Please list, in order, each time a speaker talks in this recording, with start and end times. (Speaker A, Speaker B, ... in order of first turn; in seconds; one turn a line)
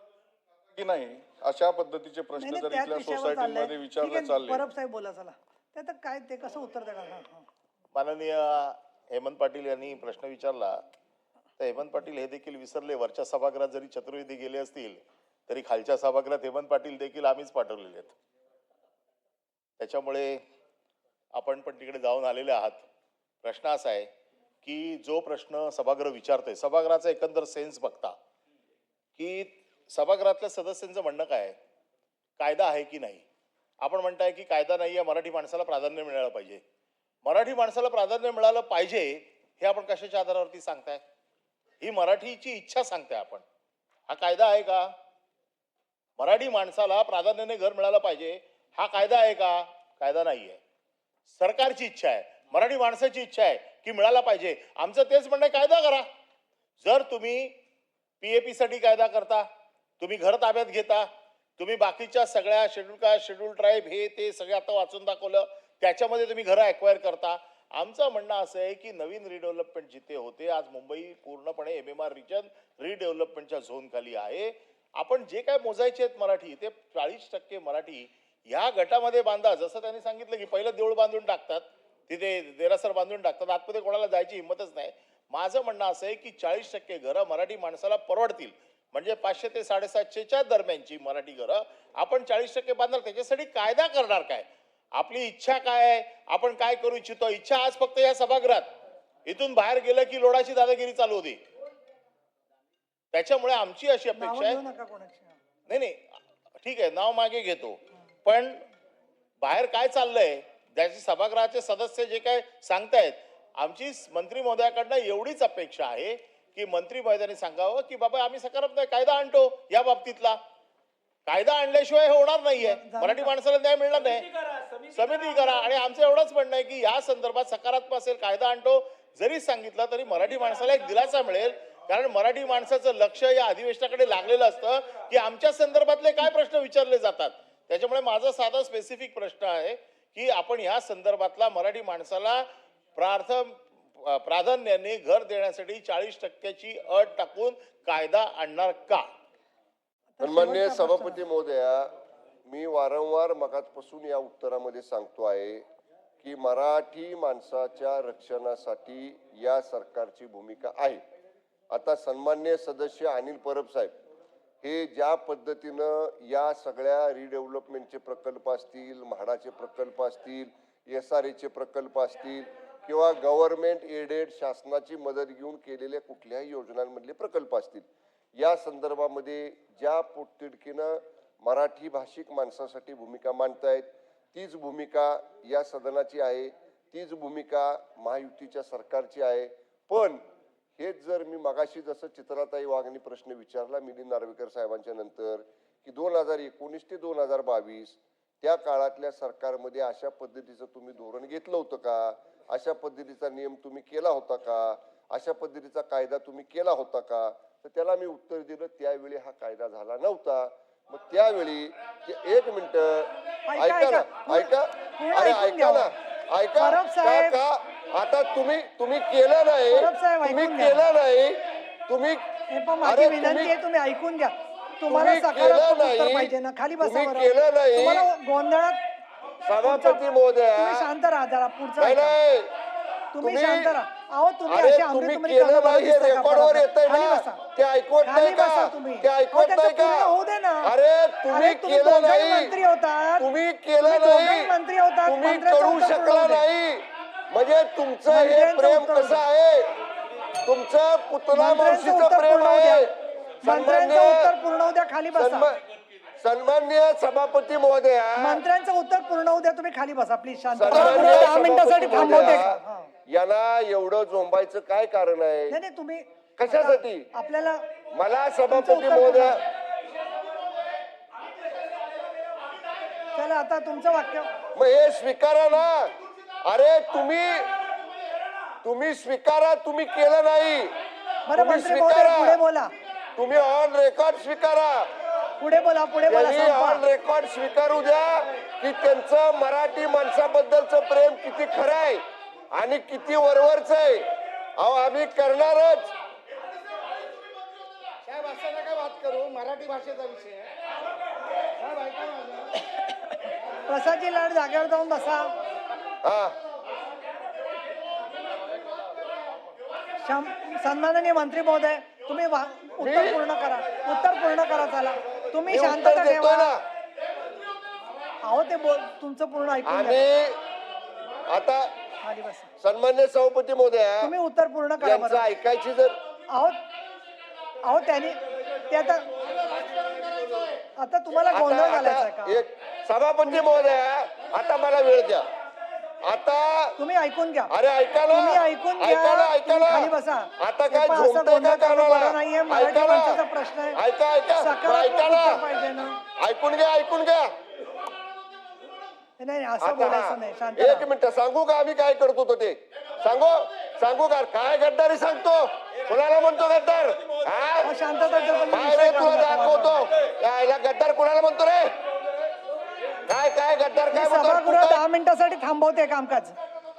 Speaker A: 0.7-4.7
Speaker B: 2.4-7.5
Speaker C: 8.0-10.8
Speaker C: 11.6-18.2
Speaker C: 19.8-20.4
Speaker C: 21.4-22.9
Speaker C: 23.4-24.1
Speaker C: 24.6-28.1
Speaker C: 29.2-31.6
Speaker C: 32.4-33.2
Speaker C: 33.8-36.6
Speaker C: 37.2-41.0
Speaker C: 41.8-43.5
Speaker C: 44.1-44.9
Speaker C: 46.2-50.6
Speaker C: 51.3-56.1
Speaker C: 56.8-57.5
Speaker C: 58.2-59.5
Speaker C: 60.0-61.1
Speaker C: 61.6-94.5
Speaker C: 95.0-98.7
Speaker C: 99.3-101.4
Speaker C: 103.1-104.6
Speaker B: 104.2-105.4
Speaker C: 105.7-106.0
Speaker C: 106.6-108.6
Speaker C: 109.4-120.4
Speaker C: 121.3-142.4
Speaker B: 122.6-123.3
Speaker C: 143.0-149.1
Speaker B: 150.1-151.2
Speaker D: 150.2-151.9
Speaker D: 152.5-155.6
Speaker D: 156.2-161.0
Speaker D: 161.7-163.9
Speaker D: 164.6-177.8
Speaker D: 178.4-190.2
Speaker D: 190.8-222.2
Speaker B: 213.5-215.9
Speaker B: 216.6-217.4
Speaker B: 219.7-220.9
Speaker B: 222.5-228.8
Speaker D: 222.8-223.5
Speaker D: 224.9-228.1
Speaker D: 229.5-230.9
Speaker B: 229.6-230.0
Speaker B: 230.6-232.2
Speaker D: 231.8-232.5
Speaker B: 233.2-237.4
Speaker D: 233.2-233.7
Speaker D: 234.5-240.1
Speaker B: 238.0-240.7
Speaker D: 240.6-242.5
Speaker B: 241.3-243.3
Speaker D: 243.2-244.5
Speaker B: 243.8-246.5
Speaker D: 245.1-249.7
Speaker B: 248.1-249.2
Speaker D: 250.4-252.9
Speaker B: 251.3-252.9
Speaker B: 253.4-255.5
Speaker D: 253.4-254.3
Speaker D: 255.1-255.6
Speaker D: 256.2-258.4
Speaker B: 258.2-262.9
Speaker D: 260.6-265.6
Speaker B: 265.5-267.6
Speaker D: 266.4-267.1
Speaker D: 267.9-269.4
Speaker B: 268.5-269.4
Speaker B: 273.1-274.3
Speaker D: 274.6-275.9
Speaker D: 276.4-277.5
Speaker D: 278.6-280.7
Speaker B: 281.3-282.7
Speaker D: 281.4-282.4
Speaker D: 283.2-284.9
Speaker B: 285.4-286.8
Speaker D: 286.1-294.1
Speaker D: 294.6-295.9
Speaker E: 298.1-300.5
Speaker E: 301.7-302.4
Speaker B: 303.7-305.3
Speaker D: 306.0-306.4
Speaker B: 310.0-316.5
Speaker D: 312.8-313.2
Speaker D: 315.5-316.6
Speaker B: 318.2-320.0
Speaker D: 319.7-320.4
Speaker D: 321.3-321.7
Speaker B: 322.0-322.5
Speaker D: 322.6-324.1
Speaker B: 324.0-325.2
Speaker D: 324.8-326.0
Speaker B: 326.3-326.6
Speaker B: 327.6-329.0
Speaker B: 330.8-332.4
Speaker D: 331.3-335.3
Speaker D: 336.1-336.8
Speaker B: 336.8-337.5
Speaker D: 337.5-343.2
Speaker B: 338.1-343.8
Speaker D: 343.8-345.4
Speaker B: 344.4-346.0
Speaker D: 346.2-347.3
Speaker B: 349.2-350.9
Speaker D: 349.6-357.7
Speaker B: 357.6-359.9
Speaker D: 358.5-361.7
Speaker D: 363.1-364.8
Speaker B: 363.9-366.4